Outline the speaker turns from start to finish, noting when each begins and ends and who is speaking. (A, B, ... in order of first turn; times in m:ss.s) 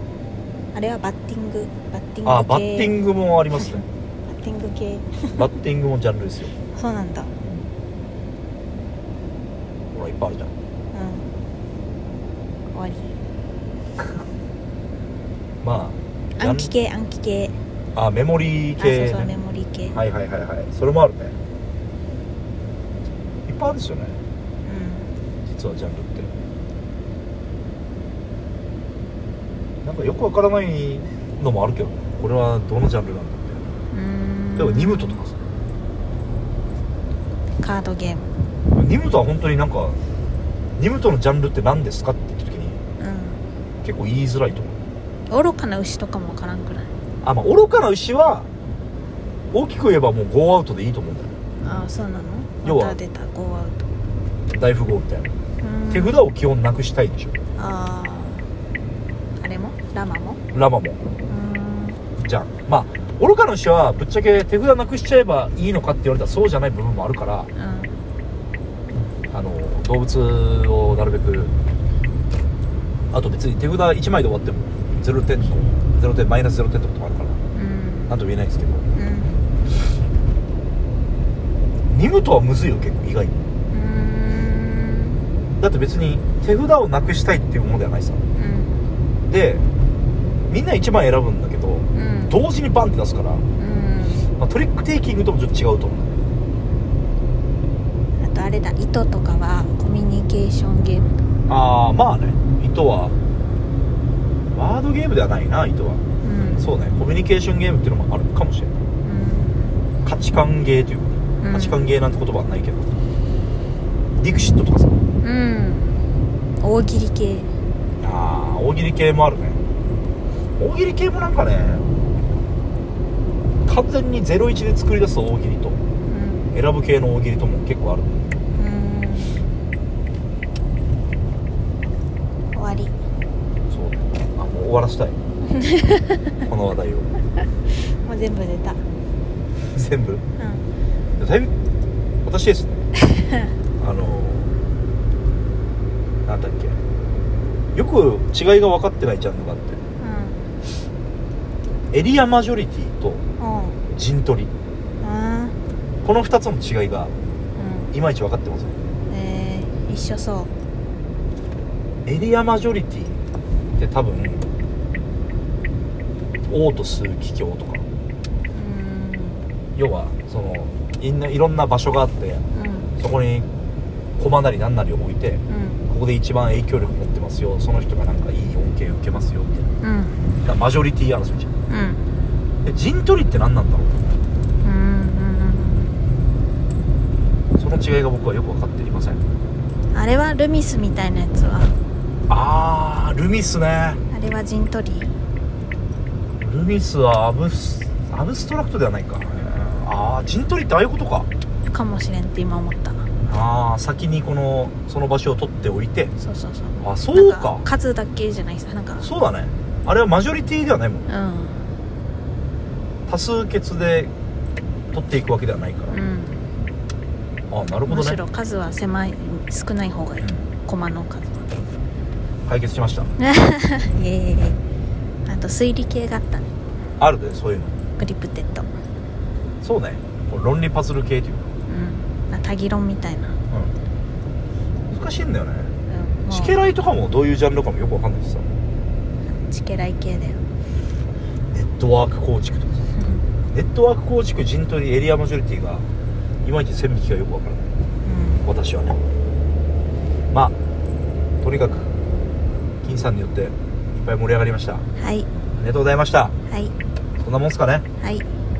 0:00.7-0:03.0 A
0:02.2-0:03.8 B
0:04.3-0:05.4 A
0:05.3-0:06.5 B
0:06.7-0:07.3 A
0:09.9-0:10.5 B
0:10.9-0:11.3 A
0:12.7-0:13.1 A
0:15.6-0:16.7 B
0:16.4-0:17.6 A
0:17.9-0:19.3 B
0:18.8-0:20.0 A
0:19.9-0:21.4 B
0:23.5-0:24.2 B
0:24.6-0:25.1 A
0:25.4-0:26.3 B
0:29.8-0:33.7 B
0:33.9-0:35.2 A
0:34.6-0:35.4 B
0:37.6-0:38.3 A
0:38.7-0:40.0 B
0:40.8-0:42.8 B
0:43.0-0:43.4 A
0:43.8-0:44.8 B
0:45.3-0:46.9 A
0:47.2-0:48.5 B
0:49.5-0:51.3 B
0:51.6-0:53.8 A
0:52.6-0:53.0 B
0:54.5-0:55.3 B
0:55.6-0:56.3 A
0:55.9-0:57.4 B
0:57.6-0:58.5 A
0:59.4-1:00.4 A
1:00.5-1:01.0 B
1:01.3-1:02.0 A
1:02.2-1:07.5 B
1:07.5-1:07.9 A
1:09.3-1:11.5 B
1:13.1-1:17.4 B
1:17.5-1:18.1 A
1:18.1-1:18.8 B
1:18.9-1:19.4 A
1:21.9-1:23.4 B
1:23.7-1:25.2 A
1:25.6-1:28.2 B
1:28.4-1:28.8 A
1:29.3-1:29.7 B
1:30.5-1:33.4 B
1:31.9-1:32.4 A
1:33.6-1:34.2 A
1:34.4-1:36.2 B
1:38.2-1:41.2 A
1:41.5-1:43.1 B
1:44.5-1:48.7 B
1:46.2-1:46.6 A
1:49.0-1:49.8 A
1:50.0-1:53.0 B
1:51.4-1:51.8 A
1:54.2-1:55.0 B
1:55.2-1:56.0 A
1:56.6-1:57.5 A
1:58.0-1:59.6 B
2:00.6-2:01.9 B
2:03.6-2:05.8 B
2:06.0-2:06.5 A
2:06.5-2:08.3 B
2:08.5-2:09.5 A
2:12.5-2:13.0 A
2:13.7-2:15.2 B
2:15.5-2:16.4 A
2:16.4-2:17.1 B
2:17.7-2:18.8 A
2:19.7-2:20.2 B
2:20.4-2:20.6 A
2:21.2-2:21.5 B
2:22.2-2:22.9 B
2:23.1-2:23.3 A
2:23.8-2:24.5 B
2:26.2-2:26.8 B
2:27.7-2:29.8 B
2:30.0-2:30.4 A
2:31.9-2:33.2 B
2:33.4-2:33.8 A
2:34.0-2:34.5 B
2:35.0-2:35.5 A
2:36.0-2:37.1 B
2:37.6-2:37.9 A
2:37.9-2:38.7 B
2:39.1-2:40.5 A
2:42.0-2:43.2 B
2:43.8-2:44.5 B
2:46.5-2:47.8 B
2:48.5-2:49.5 A
2:49.8-2:52.4 B
2:52.5-2:52.9 A
2:53.0-2:53.5 B
2:54.2-2:59.7 B
2:55.5-2:55.8 A
2:59.8-3:00.2 A
3:00.4-3:01.5 B
3:01.7-3:02.0 A
3:02.6-3:03.9 B
3:04.6-3:05.9 A
3:07.6-3:09.2 B
3:09.9-3:11.8 A
3:12.3-3:14.0 B
3:14.1-3:15.1 A
3:16.4-3:21.3 B
3:21.6-3:23.1 A
3:23.2-3:26.1 B
3:26.2-3:29.1 A
3:26.8-3:27.7 B
3:29.0-3:31.0 B
3:31.1-3:31.7 A
3:33.1-3:34.1 B
3:34.9-3:36.0 B
3:35.9-3:36.5 A
3:37.5-3:38.2 B
3:37.9-3:41.5 A
3:40.2-3:40.4 B
3:42.5-3:43.1 B
3:43.2-3:44.6 A
3:45.2-3:46.5 A
3:47.0-3:47.8 B
3:48.0-3:48.7 A
3:49.6-3:51.5 B
3:51.7-3:53.4 A
3:54.9-3:55.7 B
3:55.9-3:56.6 A
3:56.3-3:58.5 B
3:59.4-4:00.4 A
4:01.5-4:02.8 B
4:03.5-4:05.8 B
4:06.4-4:07.7 B
4:08.0-4:08.4 A
4:08.4-4:09.0 B
4:11.4-4:12.0 B
4:12.8-4:14.9 B
4:15.0-4:15.3 A
4:15.6-4:16.3 B
4:16.5-4:16.7 A
4:17.2-4:17.9 B
4:18.0-4:18.2 A